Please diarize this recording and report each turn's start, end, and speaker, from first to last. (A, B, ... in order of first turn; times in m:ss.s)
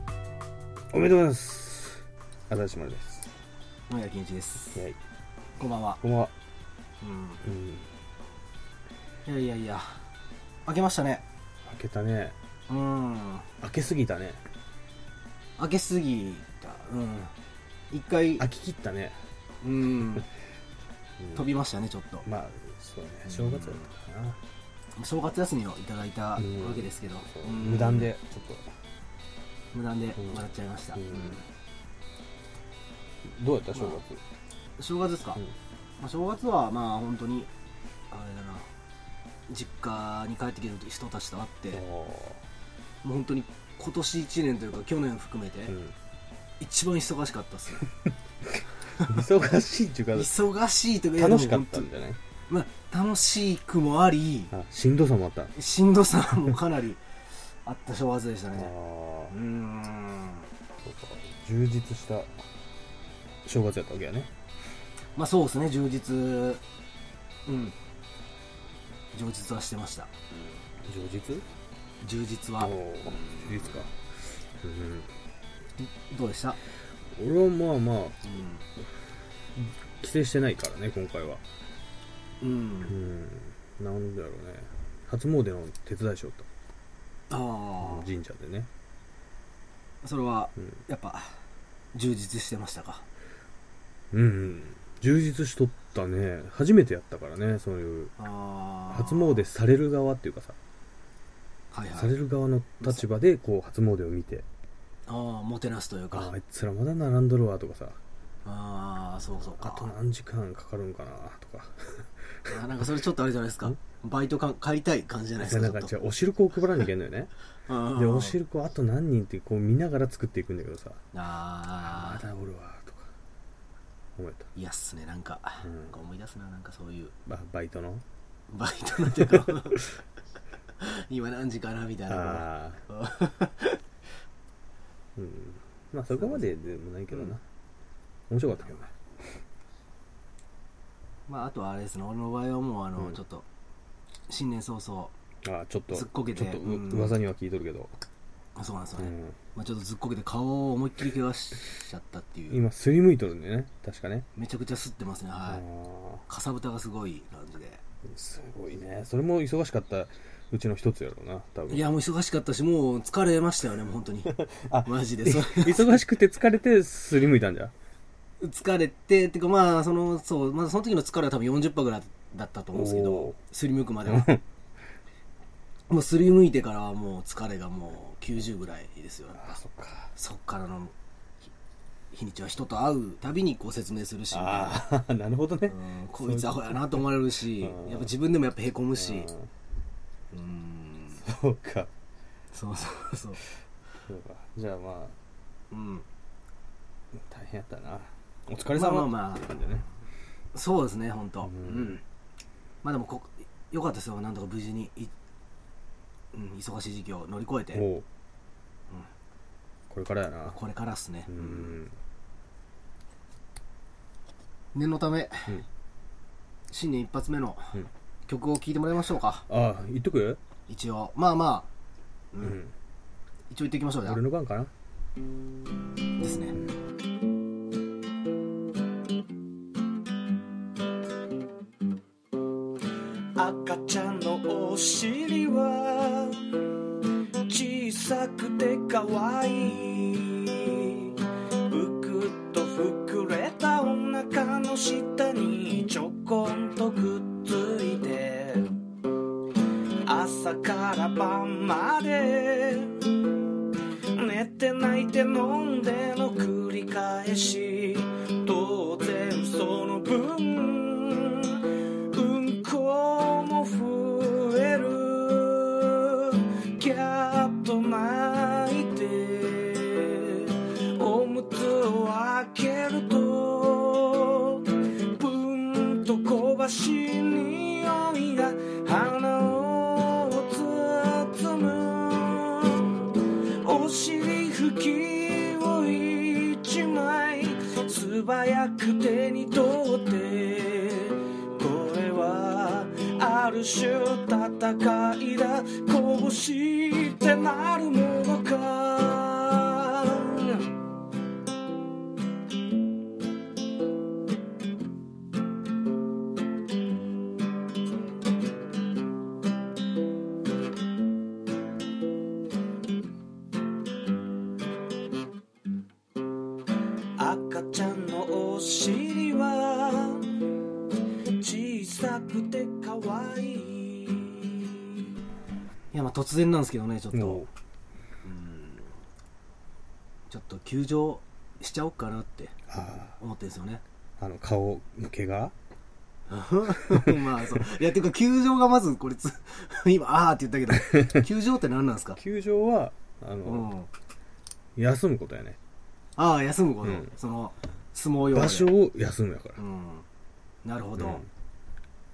0:00.9-0:03.3 A
0:03.9-0:04.8 B
0:05.6-0:06.0 B
0:06.0-0:06.3 A
0:07.0-0:07.4 B
0:07.4-0:07.9 A
0:09.2-0:10.0 B
0:10.6-0:11.2 B
0:11.6-0:12.4 A
0:12.7-0:13.5 B
0:13.6-0:14.4 A
0:15.6-0:17.3 B
0:17.9-0:18.4 B
0:18.4-0:19.2 A
0:19.6-0:20.3 B
0:21.2-0:21.4 A
0:21.3-0:22.2 B
0:22.2-0:24.4 A
0:23.2-0:23.9 B
0:24.9-0:28.1 B
0:26.4-0:28.7 A
0:29.7-0:31.4 B
0:31.0-0:31.4 A
0:33.2-0:34.2 A
0:33.8-0:34.0 B
0:34.8-0:35.4 B
0:36.0-0:37.5 B
0:38.1-0:38.7 B
0:39.5-0:41.8 B
0:41.7-0:42.4 A
0:43.0-0:45.7 B
0:45.7-0:46.0 A
0:46.6-0:47.9 B
0:48.9-0:49.2 B
0:49.0-0:50.3 A
0:50.1-0:51.9 B
0:51.2-0:52.2 A
0:52.5-0:54.5 B
0:54.5-0:55.5 A
0:55.5-0:58.7 B
0:58.5-0:59.3 A
0:59.3-1:00.5 B
1:00.8-1:02.3 A
1:03.4-1:04.3 A
1:05.1-1:06.6 B
1:07.4-1:07.8 B
1:09.1-1:10.1 B
1:10.8-1:11.4 A
1:12.0-1:13.7 B
1:12.6-1:13.9 A
1:14.6-1:15.1 A
1:15.8-1:16.6 B
1:17.1-1:18.2 A
1:18.2-1:18.6 B
1:19.6-1:21.4 A
1:22.4-1:23.0 B
1:22.9-1:26.5 A
1:27.3-1:28.1 B
1:27.8-1:28.7 A
1:30.0-1:31.4 B
1:31.9-1:33.0 B
1:34.1-1:38.1 A
1:38.2-1:39.5 B
1:38.9-1:40.6 A
1:41.7-1:42.2 B
1:42.0-1:44.4 A
1:45.1-1:46.3 B
1:46.1-1:48.0 A
1:48.4-1:49.9 B
1:49.4-1:52.6 A
1:52.5-1:55.9 B
1:55.4-1:57.3 A
1:57.6-1:58.4 B
1:57.9-2:01.0 A
2:01.1-2:02.2 B
2:01.9-2:03.1 A
2:04.2-2:04.5 A
2:04.5-2:07.1 B
2:05.6-2:05.9 A
2:07.2-2:08.0 A
2:08.5-2:09.9 B
2:10.8-2:13.8 B
2:12.1-2:12.8 A
2:15.2-2:17.4 A
2:16.1-2:16.5 B
2:18.3-2:18.8 A
2:18.6-2:18.9 B
2:21.3-2:23.4 B
2:24.3-2:25.1 B
2:25.4-2:27.9 A
2:25.9-2:27.2 B
2:28.5-2:32.6 B
2:29.0-2:29.3 A
2:32.5-2:34.3 A
2:34.4-2:35.6 B
2:35.4-2:36.2 A
2:36.2-2:37.8 B
2:38.1-2:41.8 A
2:41.7-2:46.0 B
2:44.4-2:47.7 A
2:48.4-2:54.3 B
2:52.7-2:53.4 A
2:54.1-2:54.4 A
2:55.9-2:59.6 B
2:59.3-3:00.1 A
3:00.1-3:00.9 B
3:02.1-3:04.8 B
3:04.3-3:07.0 A
3:05.7-3:09.3 B
3:07.6-3:08.1 A
3:09.0-3:09.5 A
3:10.3-3:11.2 B
3:11.2-3:11.9 A
3:12.5-3:13.4 B
3:14.1-3:15.2 A
3:15.7-3:16.0 B
3:17.2-3:19.8 A
3:18.7-3:19.8 B
3:20.5-3:22.0 B
3:21.4-3:21.9 A
3:22.8-3:25.1 B
3:26.3-3:27.8 B
3:27.7-3:28.0 A
3:29.9-3:30.6 A
3:30.5-3:31.8 B
3:31.3-3:31.9 A
3:34.7-3:35.6 B
3:36.7-3:39.4 B
3:39.5-3:40.4 A
3:40.7-3:41.7 B
3:42.3-3:42.6 B
3:42.4-3:42.7 A
3:43.5-3:44.2 B
3:44.0-3:44.7 A
3:46.2-3:46.6 B
3:53.4-3:56.6 C
3:57.4-4:08.8 C
4:10.0-4:13.3 C
4:14.1-5:00.7 C
5:17.2-5:20.5 C
5:21.4-5:24.9 C
5:25.9-5:27.5 B
5:27.1-5:27.5 A
5:28.2-5:29.0 B
5:30.3-5:33.8 B
5:32.7-5:33.1 A
5:34.2-5:35.5 A
5:36.3-5:42.2 B
5:42.2-5:43.7 A
5:43.4-5:43.9 B
5:44.8-5:45.6 A
5:46.2-5:48.7 B
5:46.8-5:47.1 A
5:48.3-5:49.6 A
5:49.6-5:50.0 B
5:50.6-5:51.2 B
5:51.0-5:51.3 A